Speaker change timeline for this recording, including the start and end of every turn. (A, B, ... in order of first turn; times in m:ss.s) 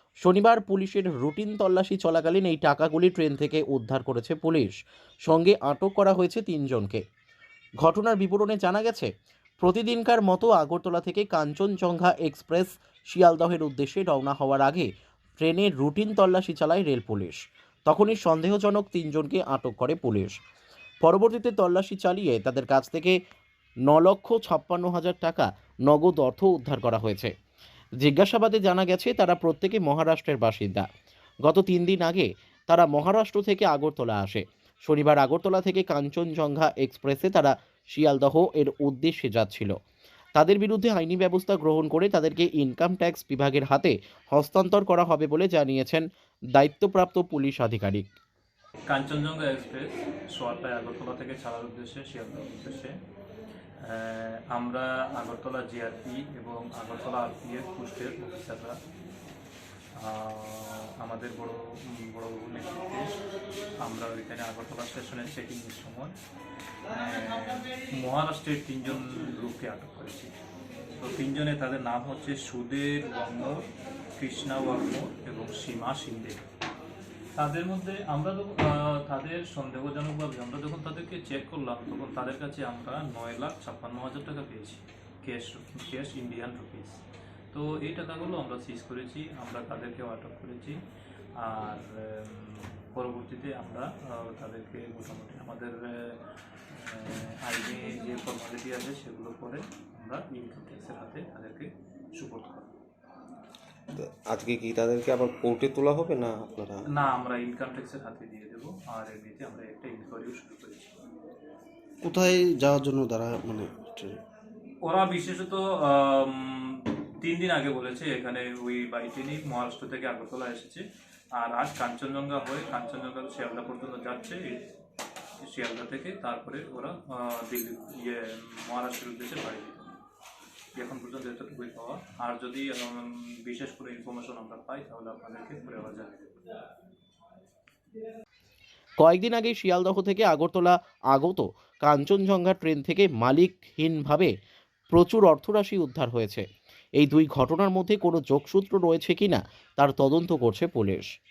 0:00.2-0:04.8 A
0:05.3-0:07.0 A
0:07.8-0:20.4 A
0:21.0-0:23.2 A
0:23.9-0:27.3 A
0:28.0-0:30.9 A
0:31.4-0:39.8 A
0:40.4-0:48.0 A
0:48.9-0:52.9 B
0:53.8-0:58.8 B
1:00.0-1:03.2 B
1:03.8-1:06.1 B
1:06.9-1:10.3 B
1:11.0-1:16.5 B
1:17.4-1:27.0 B
1:27.5-1:30.8 B
1:31.4-1:42.7 B
1:43.9-1:46.9 C
1:46.9-1:51.0 B
1:52.0-1:54.2 D
1:54.8-2:00.8 B
2:01.4-2:04.7 B
2:05.4-2:10.0 B
2:10.8-2:16.4 B
2:19.0-2:24.3 A
2:24.9-2:26.4 A
2:27.0-2:31.1 A